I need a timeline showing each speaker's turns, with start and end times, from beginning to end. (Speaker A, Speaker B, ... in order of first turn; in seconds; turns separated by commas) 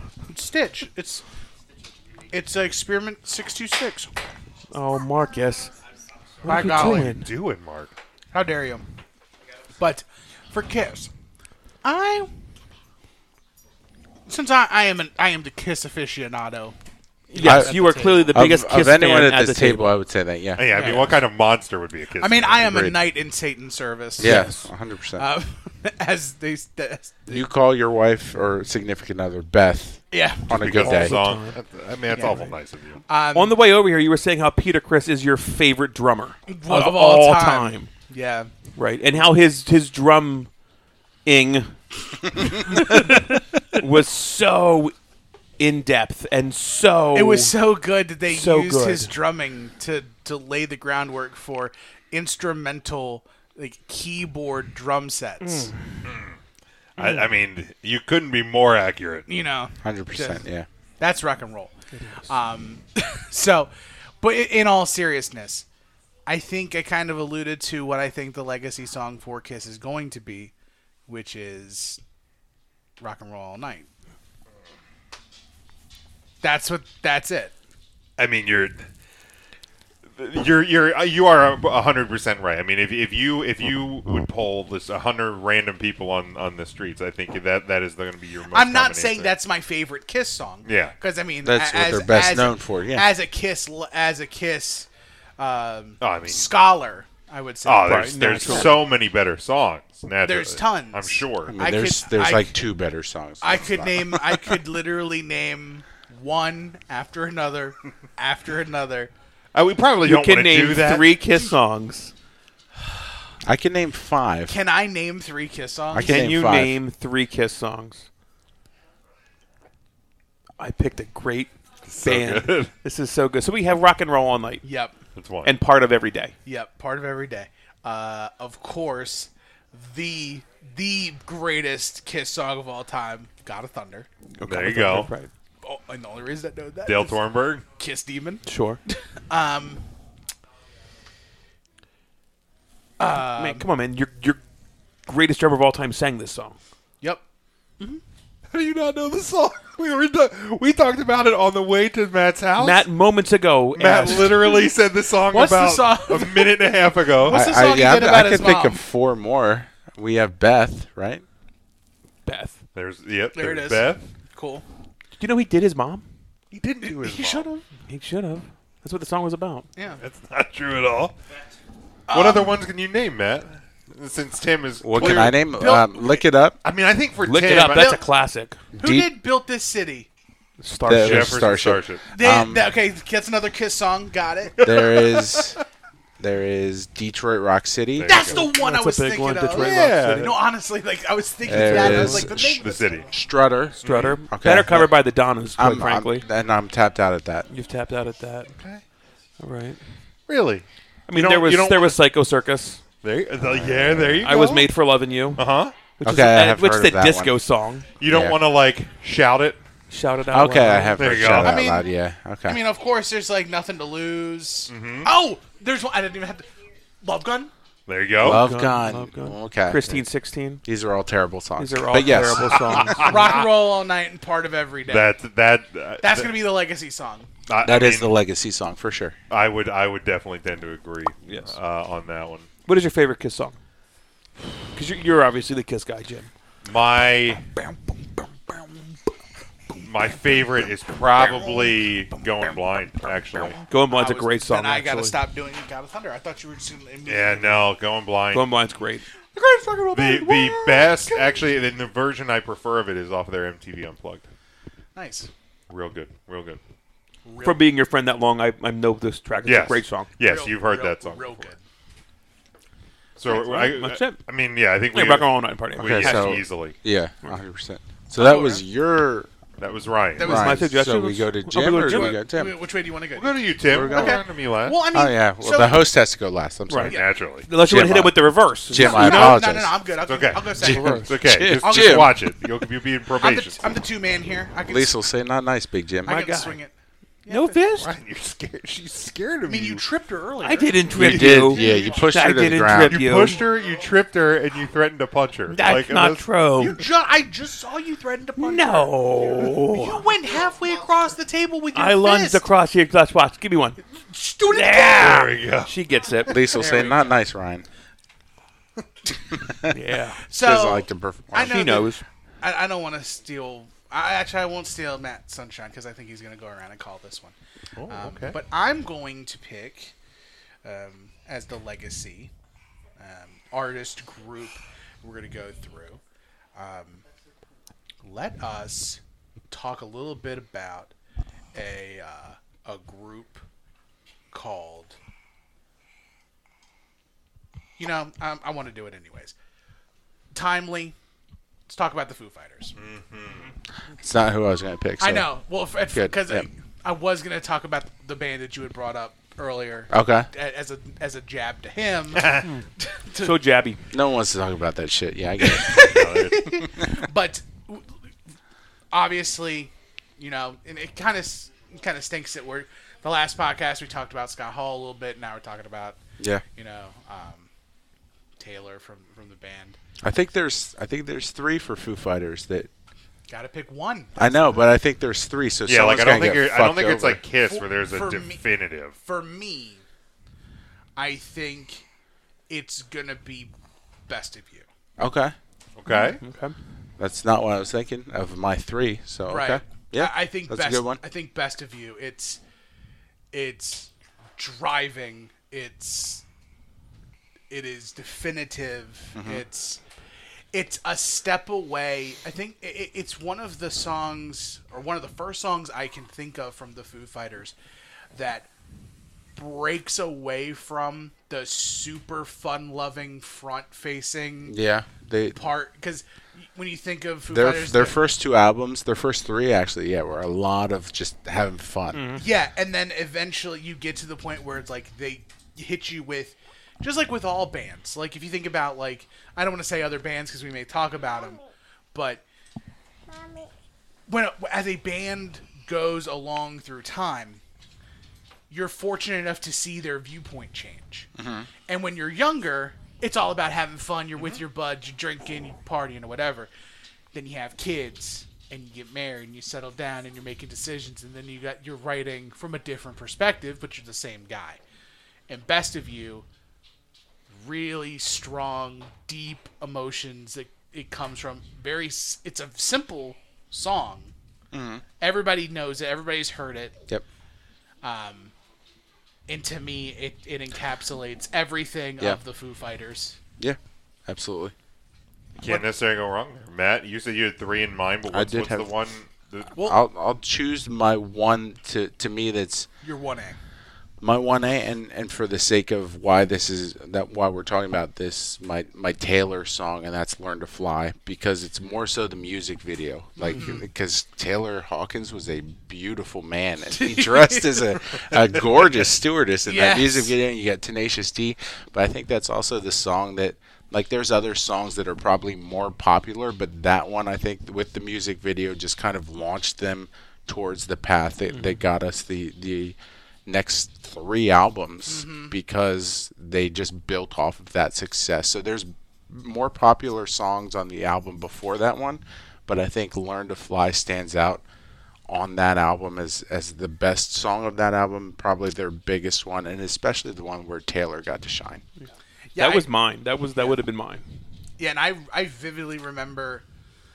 Speaker A: 0.3-1.2, Speaker A: 2.3-4.1, Speaker B: 4.7-5.7, Speaker A: 6.4-7.2, Speaker B: 6.4-7.3, Speaker C: 6.6-7.9, Speaker A: 8.3-8.8, Speaker A: 9.8-11.1, Speaker A: 11.8-12.3, Speaker A: 14.3-16.7, Speaker B: 17.3-20.0, Speaker D: 17.3-20.6, Speaker A: 17.3-18.3, Speaker C: 20.6-22.6, Speaker A: 20.7-21.1, Speaker A: 22.2-27.5, Speaker D: 22.6-23.0, Speaker D: 24.2-25.2, Speaker B: 24.2-24.6, Speaker D: 27.3-31.2, Speaker A: 30.1-30.5, Speaker C: 30.5-33.0, Speaker B: 30.7-31.6, Speaker A: 32.1-32.4, Speaker B: 32.2-32.5, Speaker A: 33.1-33.5, Speaker B: 33.3-37.9, Speaker A: 36.5-38.5, Speaker B: 38.8-40.5, Speaker B: 41.2-44.9, Speaker B: 45.6-47.5, Speaker A: 47.1-55.7, Speaker B: 48.3-49.1, Speaker B: 55.4-56.0, Speaker C: 56.0-56.4, Speaker C: 57.0-59.3, Speaker B: 57.0-57.2, Speaker A: 59.3-60.4, Speaker D: 59.8-60.7, Speaker A: 61.0-61.7, Speaker B: 61.9-62.3, Speaker A: 62.2-63.7, Speaker A: 64.2-65.7, Speaker A: 66.3-70.5, Speaker A: 71.1-72.0, Speaker A: 73.0-73.9, Speaker A: 76.4-77.5, Speaker C: 78.2-78.9, Speaker C: 80.2-89.3, Speaker A: 88.5-94.9, Speaker C: 90.6-90.9, Speaker D: 91.4-93.1, Speaker A: 95.4-98.8, Speaker C: 96.0-96.5, Speaker C: 97.6-101.5, Speaker B: 97.8-98.8, Speaker A: 100.2-102.5, Speaker D: 101.4-104.4, Speaker A: 103.4-109.1, Speaker C: 109.5-111.1, Speaker B: 110.0-112.1, Speaker D: 113.4-114.5, Speaker A: 114.5-116.3, Speaker D: 115.9-116.8, Speaker B: 116.0-118.1, Speaker B: 120.6-121.5, Speaker C: 121.8-122.7, Speaker B: 122.0-124.6, Speaker A: 124.6-124.9, Speaker C: 125.2-125.5, Speaker B: 125.4-126.3, Speaker A: 126.5-134.1, Speaker B: 134.3-135.3, Speaker C: 134.4-135.1, Speaker A: 135.6-139.8, Speaker C: 136.8-137.6, Speaker B: 138.4-138.8, Speaker A: 143.0-143.7, Speaker B: 143.1-144.4, Speaker B: 145.1-146.6, Speaker C: 148.5-152.8, Speaker B: 152.6-154.5, Speaker C: 153.7-157.4, Speaker A: 155.3-156.5, Speaker A: 157.2-158.8, Speaker D: 157.3-161.2, Speaker B: 162.2-162.6, Speaker C: 162.7-164.1, Speaker A: 163.3-164.6, Speaker B: 165.2-166.0, Speaker C: 166.5-167.5, Speaker A: 166.8-167.7, Speaker B: 167.9-169.7, Speaker A: 169.8-170.0, Speaker C: 170.0-171.1, Speaker A: 172.1-172.6, Speaker C: 172.1-175.4, Speaker D: 174.8-176.6, Speaker A: 174.9-176.2, Speaker C: 176.6-178.0, Speaker B: 177.2-178.6, Speaker A: 177.6-178.0, Speaker D: 178.7-179.1, Speaker A: 178.7-180.1, Speaker B: 180.6-181.6, Speaker D: 180.8-182.7, Speaker C: 180.9-182.0, Speaker A: 182.1-185.3, Speaker C: 184.6-185.6, Speaker D: 184.6-185.6, Speaker D: 186.2-188.2, Speaker C: 188.0-188.4, Speaker A: 188.0-193.0, Speaker B: 188.2-190.4, Speaker C: 189.5-190.4, Speaker D: 191.4-195.0, Speaker B: 191.5-192.3, Speaker C: 192.5-193.1, Speaker C: 193.8-194.2, Speaker B: 193.8-196.2, Speaker D: 195.6-197.5, Speaker B: 197.5-198.5, Speaker C: 198.6-198.8, Speaker B: 199.4-199.8, Speaker C: 200.3-202.0, Speaker B: 201.1-202.8, Speaker C: 203.0-204.7, Speaker D: 203.4-204.3, Speaker B: 204.2-205.5, Speaker C: 205.3-205.7, Speaker B: 206.0-207.8, Speaker D: 206.0-207.4, Speaker C: 208.0-209.6, Speaker D: 208.1-208.4, Speaker B: 209.9-211.0, Speaker D: 210.3-212.6, Speaker C: 210.9-211.6, Speaker A: 211.4-211.9, Speaker A: 212.4-216.5, Speaker C: 214.7-215.1, Speaker A: 217.0-217.5, Speaker C: 217.9-218.4, Speaker D: 218.2-219.8, Speaker B: 218.2-220.6, Speaker D: 220.6-222.9, Speaker B: 221.6-223.4, Speaker C: 222.4-223.4, Speaker A: 222.8-225.1, Speaker C: 224.9-226.3, Speaker A: 226.0-227.3, Speaker C: 227.5-228.1, Speaker D: 227.6-229.1, Speaker C: 229.3-232.5, Speaker B: 231.2-231.6, Speaker B: 232.7-233.6, Speaker B: 234.7-236.3, Speaker C: 236.6-237.4, Speaker A: 239.7-240.3, Speaker C: 239.8-243.6, Speaker A: 241.2-247.7, Speaker B: 243.7-245.1, Speaker C: 247.1-248.5, Speaker B: 248.3-249.0, Speaker A: 249.3-251.4, Speaker C: 249.9-254.3, Speaker A: 254.9-255.3, Speaker C: 255.7-256.6, Speaker A: 257.2-257.6, Speaker B: 257.4-260.1, Speaker C: 259.4-261.5, Speaker A: 260.2-261.6, Speaker C: 263.2-266.8, Speaker B: 263.3-264.2, Speaker B: 264.9-266.4, Speaker D: 265.8-269.3, Speaker A: 268.1-268.6, Speaker C: 269.6-270.4, Speaker A: 270.2-270.7, Speaker D: 270.2-272.6, Speaker B: 270.2-272.1, Speaker A: 271.8-275.9, Speaker C: 273.1-274.8, Speaker D: 273.6-274.2, Speaker D: 274.9-276.9, Speaker B: 276.7-279.4, Speaker A: 276.8-277.1, Speaker C: 276.9-277.5, Speaker D: 277.6-279.7, Speaker A: 278.7-282.2, Speaker C: 280.1-283.7, Speaker D: 280.5-282.1, Speaker B: 280.6-281.1, Speaker A: 283.2-285.0, Speaker D: 284.7-286.2, Speaker A: 286.1-286.7, Speaker B: 286.1-286.6, Speaker A: 287.2-287.6, Speaker B: 287.3-287.9, Speaker C: 287.8-289.8, Speaker A: 289.5-292.3, Speaker B: 290.4-293.4, Speaker D: 290.9-293.0, Speaker C: 292.8-296.2, Speaker B: 295.5-296.8, Speaker A: 296.6-302.4, Speaker B: 298.4-300.1, Speaker B: 301.7-303.8, Speaker A: 304.0-305.3, Speaker B: 304.5-306.4, Speaker C: 304.9-305.7, Speaker D: 306.2-307.6, Speaker A: 306.5-307.2, Speaker D: 309.3-309.8, Speaker B: 309.7-310.2, Speaker A: 310.3-319.9, Speaker D: 310.3-311.6, Speaker B: 311.4-312.0, Speaker C: 317.8-318.4, Speaker A: 320.6-322.3, Speaker A: 323.0-326.0, Speaker A: 326.5-327.0, Speaker A: 328.0-330.9, Speaker A: 331.5-333.4, Speaker A: 334.3-335.0, Speaker A: 337.8-339.3, Speaker A: 340.3-340.9, Speaker A: 341.7-342.7, Speaker C: 342.8-343.5, Speaker D: 344.0-345.3, Speaker A: 345.0-353.4, Speaker D: 345.9-346.5, Speaker D: 349.9-350.3, Speaker C: 352.1-352.5, Speaker B: 353.2-353.8, Speaker D: 353.9-355.9, Speaker A: 355.4-358.0, Speaker C: 355.8-356.6, Speaker A: 358.9-366.0, Speaker D: 366.2-366.4, Speaker A: 366.5-367.5, Speaker A: 368.4-369.8, Speaker D: 370.0-372.7, Speaker A: 373.3-374.6, Speaker D: 374.2-377.2, Speaker C: 375.7-378.9, Speaker A: 377.4-378.4, Speaker A: 379.0-379.8, Speaker A: 380.9-381.8, Speaker A: 382.5-383.5, Speaker A: 384.1-384.7, Speaker D: 385.0-385.3, Speaker C: 385.8-386.2, Speaker A: 385.9-386.1, Speaker B: 386.2-386.5, Speaker D: 387.0-391.0, Speaker A: 389.3-392.4, Speaker A: 393.3-396.2, Speaker A: 397.5-399.8, Speaker D: 399.1-399.4, Speaker A: 400.5-407.5, Speaker A: 408.1-408.5, Speaker A: 409.4-414.6, Speaker D: 414.5-415.4, Speaker A: 415.3-418.0, Speaker D: 417.3-422.0, Speaker B: 421.9-422.2, Speaker A: 422.1-432.2, Speaker A: 434.1-437.4, Speaker A: 438.5-441.1, Speaker D: 441.1-441.5, Speaker A: 441.7-446.5, Speaker A: 447.1-454.6, Speaker A: 455.3-456.2, Speaker A: 457.3-464.1, Speaker D: 464.5-464.8, Speaker A: 465.0-466.7, Speaker A: 467.8-468.3, Speaker A: 469.3-473.2, Speaker D: 473.4-474.5, Speaker C: 475.4-479.5, Speaker D: 478.1-478.7, Speaker A: 479.5-479.8, Speaker D: 479.6-482.7, Speaker A: 482.8-483.4, Speaker D: 484.0-524.4, Speaker A: 493.2-493.6, Speaker A: 496.7-498.4, Speaker A: 499.4-500.1, Speaker B: 511.3-511.6, Speaker A: 514.8-515.3, Speaker D: 525.1-531.6, Speaker A: 532.3-532.7, Speaker B: 532.4-534.0, Speaker A: 534.6-536.4